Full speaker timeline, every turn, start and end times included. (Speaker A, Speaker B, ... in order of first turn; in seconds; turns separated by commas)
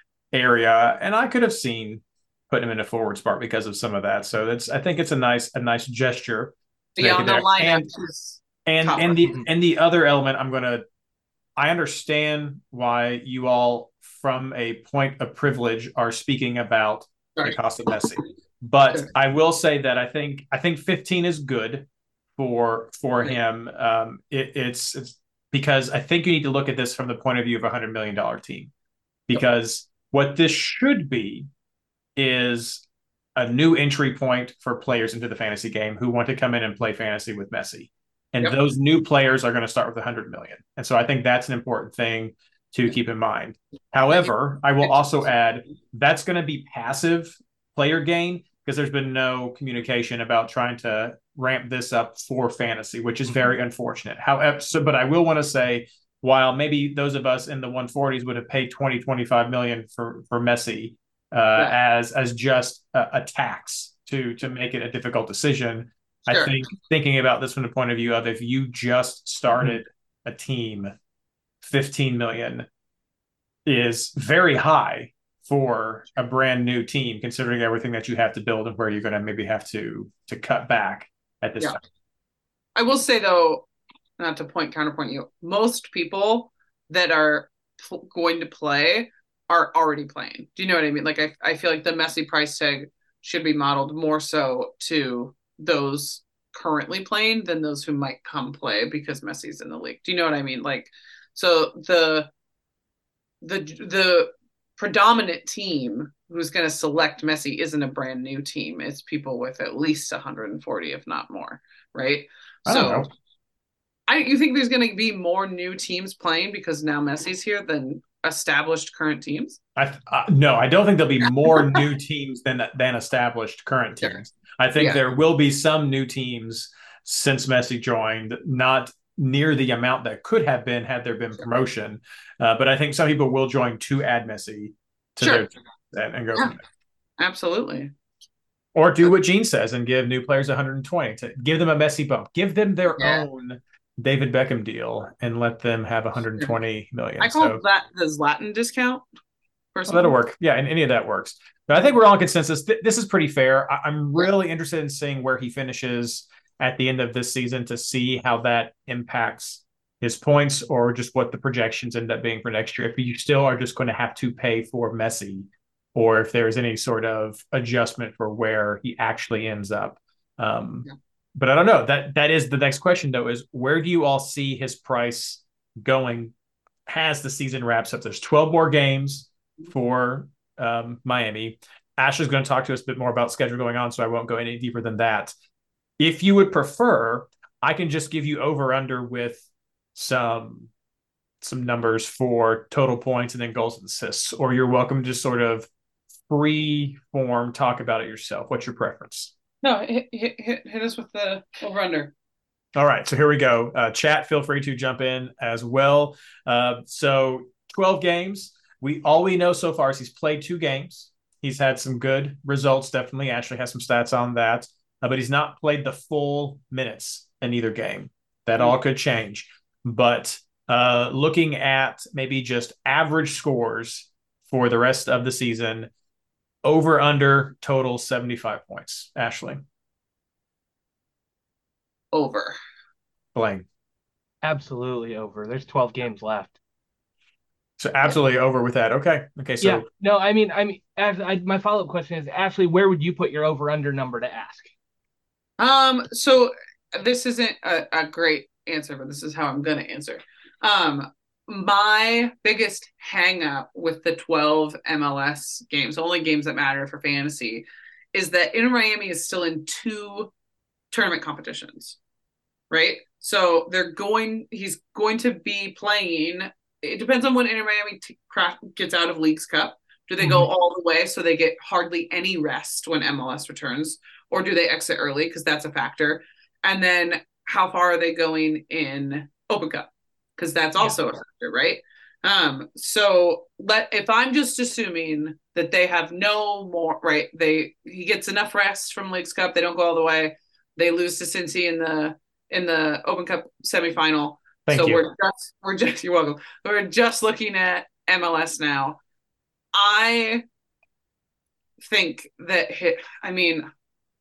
Speaker A: 0.3-7.9, Speaker B: 7.0-9.3, Speaker A: 8.7-10.8, Speaker A: 11.6-28.7, Speaker B: 17.4-18.1, Speaker A: 29.3-31.5, Speaker A: 32.1-32.8, Speaker A: 33.4-70.9, Speaker B: 44.8-45.1, Speaker B: 66.3-66.6, Speaker A: 71.6-72.7, Speaker A: 73.6-81.8, Speaker B: 82.7-83.7, Speaker B: 84.2-102.3, Speaker B: 103.4-113.1, Speaker A: 112.7-113.1, Speaker B: 114.1-119.6, Speaker A: 119.8-136.6, Speaker B: 135.2-135.5, Speaker B: 137.2-137.9, Speaker A: 138.7-147.6, Speaker B: 143.0-143.2, Speaker B: 147.2-149.0, Speaker B: 149.7-150.1, Speaker A: 149.9-170.8, Speaker A: 171.4-176.3, Speaker A: 176.9-185.3, Speaker A: 186.0-190.7, Speaker A: 191.4-195.7, Speaker A: 196.3-199.3, Speaker B: 199.6-202.1, Speaker A: 202.7-225.9, Speaker A: 226.6-229.6, Speaker B: 232.1-232.6, Speaker A: 233.3-233.7, Speaker C: 234.4-236.6, Speaker A: 237.8-239.8, Speaker C: 239.6-244.7, Speaker B: 245.6-260.3, Speaker B: 260.9-262.0, Speaker B: 262.7-279.8, Speaker C: 270.2-270.5, Speaker B: 280.4-299.0, Speaker A: 294.7-295.0, Speaker B: 299.7-300.4, Speaker B: 301.8-303.7